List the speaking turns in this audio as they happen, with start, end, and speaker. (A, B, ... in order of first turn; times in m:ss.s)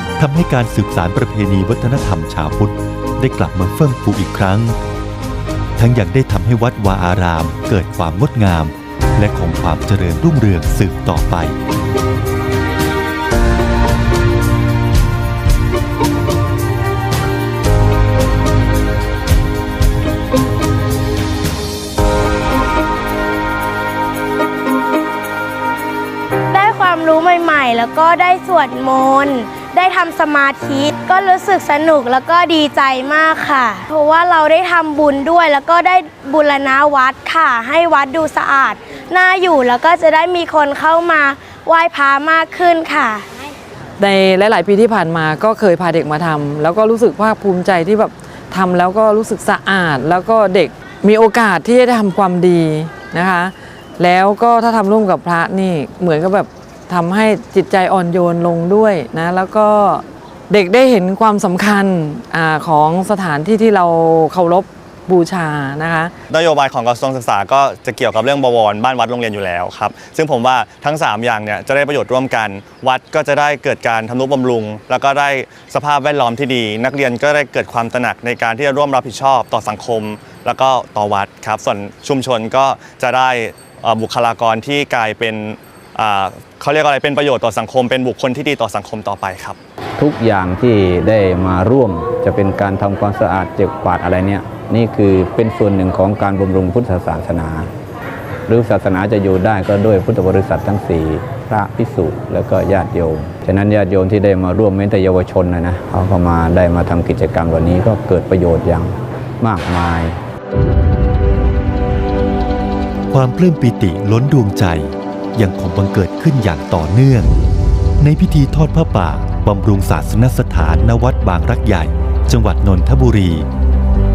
0:00.2-0:04.8 A
0:05.8-0:11.6 A
0:26.5-0:43.3 B
0:44.0-1:06.1 C
1:06.3-1:29.6 D
1:30.0-1:37.7 E
1:38.5-1:50.2 E
1:53.1-1:57.3 A
1:58.0-2:03.5 A